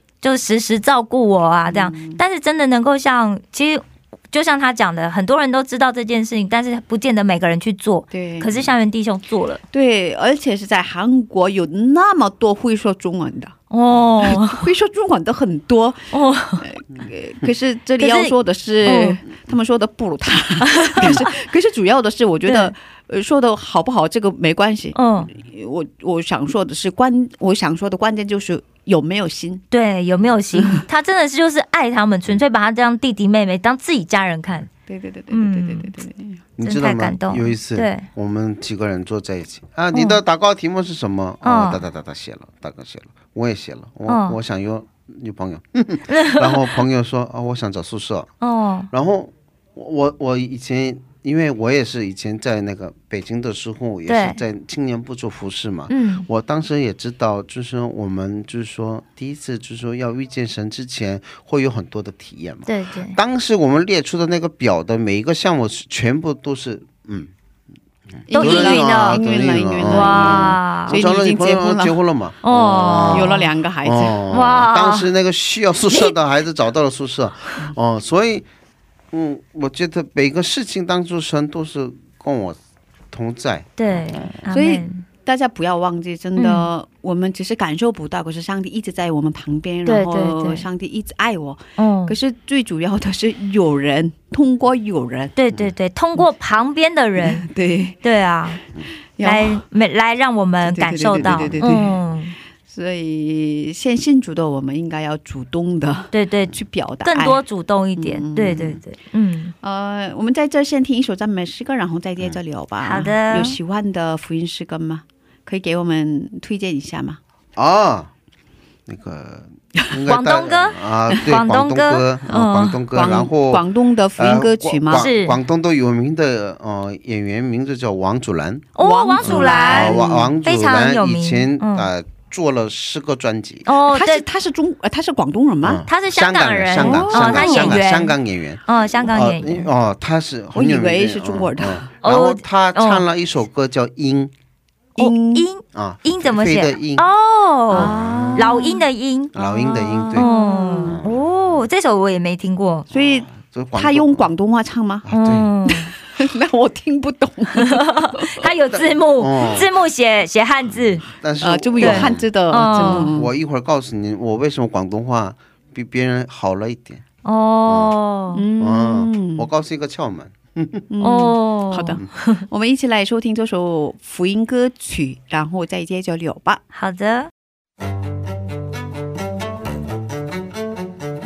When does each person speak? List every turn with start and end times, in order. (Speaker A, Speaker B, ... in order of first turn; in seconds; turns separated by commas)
Speaker A: 0.2-9.6, Speaker B: 1.7-2.2, Speaker B: 8.1-8.5, Speaker B: 9.7-13.5, Speaker A: 13.7-14.7, Speaker B: 14.2-16.1, Speaker A: 16.1-16.6, Speaker B: 16.6-29.6, Speaker A: 18.0-19.2, Speaker A: 20.7-21.3, Speaker A: 22.4-22.7, Speaker A: 24.9-25.3, Speaker A: 29.7-34.7, Speaker B: 30.5-30.8, Speaker B: 34.9-36.4, Speaker A: 35.3-35.9, Speaker C: 36.6-48.3, Speaker A: 36.6-38.1, Speaker A: 39.9-40.2, Speaker A: 41.4-41.9, Speaker A: 44.1-44.4, Speaker A: 46.1-46.7, Speaker A: 48.4-48.9, Speaker C: 48.9-67.3, Speaker A: 54.1-54.4, Speaker A: 55.9-56.2, Speaker A: 62.6-63.2, Speaker C: 68.2-78.5, Speaker B: 68.3-71.9, Speaker A: 68.3-69.2, Speaker A: 69.8-71.0, Speaker A: 72.4-73.4, Speaker B: 72.5-74.2, Speaker A: 74.3-75.1, Speaker A: 75.9-76.2, Speaker C: 79.1-82.6, Speaker C: 83.1-84.4, Speaker A: 83.8-85.0, Speaker B: 84.5-95.3, Speaker A: 86.4-86.7, Speaker A: 89.8-90.6, Speaker A: 91.8-92.2, Speaker A: 95.3-97.5, Speaker B: 97.2-98.0, Speaker A: 98.0-98.6, Speaker B: 99.2-99.6, Speaker A: 99.2-102.3, Speaker B: 100.6-102.0, Speaker B: 102.7-107.4, Speaker A: 106.1-109.5, Speaker B: 108.0-108.8, Speaker B: 109.6-117.2, Speaker A: 112.8-113.6, Speaker C: 117.5-118.1, Speaker C: 118.8-133.7, Speaker A: 120.1-122.8, Speaker B: 122.9-125.1, Speaker A: 124.9-125.4, Speaker A: 128.8-131.9, Speaker B: 128.8-130.3, Speaker A: 133.7-134.2, Speaker B: 133.9-135.8, Speaker C: 135.6-144.3, Speaker A: 135.9-139.7, Speaker B: 136.8-137.8, Speaker B: 140.5-141.9, Speaker A: 142.0-143.0, Speaker B: 144.9-145.5, Speaker A: 145.0-152.9, Speaker C: 145.7-147.1, Speaker C: 147.7-148.6, Speaker B: 147.7-148.8, Speaker C: 149.3-150.3, Speaker B: 150.1-151.0, Speaker C: 150.8-151.2, Speaker C: 152.9-154.3, Speaker B: 152.9-155.1, Speaker C: 155.0-155.5, Speaker A: 155.1-155.9, Speaker B: 155.7-158.3, Speaker A: 157.6-161.1, Speaker C: 158.7-159.7, Speaker C: 160.7-167.0, Speaker B: 161.4-163.3, Speaker A: 161.8-163.1, Speaker A: 167.2-168.4, Speaker C: 167.7-167.9, Speaker B: 168.3-169.5, Speaker C: 168.6-170.9, Speaker B: 170.9-176.6, Speaker A: 171.0-172.4, Speaker A: 176.7-177.3